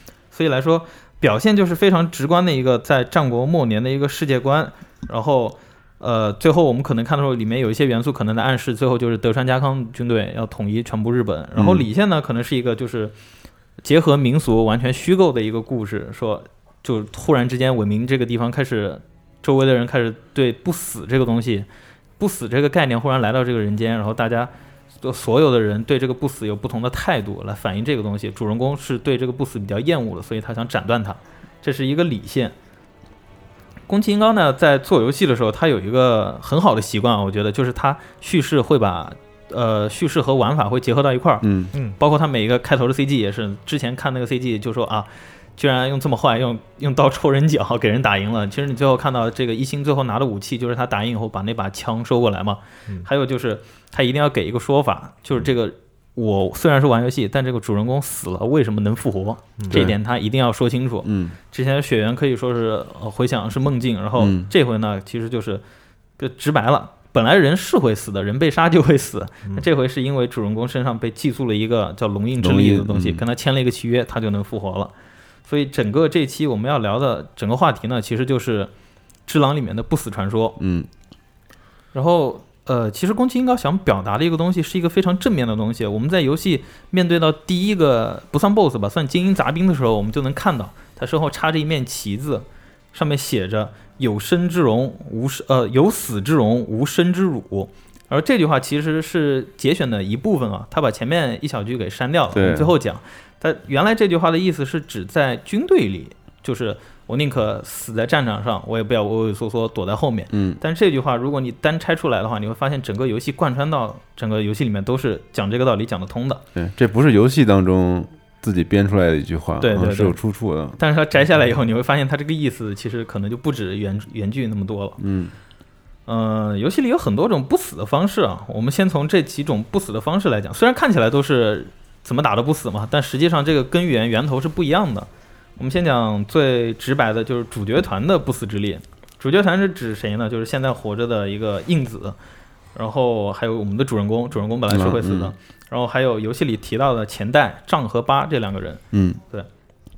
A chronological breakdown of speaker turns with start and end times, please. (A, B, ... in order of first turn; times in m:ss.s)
0:00.3-0:13.1 A
0:11.6-0:11.8 B
0:13.8-0:21.7 A
0:22.2-0:24.5 A
0:25.0-0:32.5 A
0:33.9-0:41.4 A
0:41.4-0:41.7 B
0:42.0-1:05.6 A
0:59.7-0:59.9 B
1:01.0-1:01.4 B
1:04.2-1:04.5 B
1:06.2-1:14.9 A
1:12.4-1:13.2 B
1:15.4-1:18.7 A
1:19.2-1:20.6 A
1:20.6-1:20.9 B
1:21.9-1:56.4 A
1:42.3-1:42.7 B
1:50.3-1:50.6 B
1:56.5-2:00.8 B
1:59.6-2:00.2 A
2:00.8-2:05.0 A
2:05.0-2:05.3 B
2:06.1-2:22.2 A
2:22.7-2:29.5 A
2:24.7-2:25.3 B
2:28.9-2:29.2 B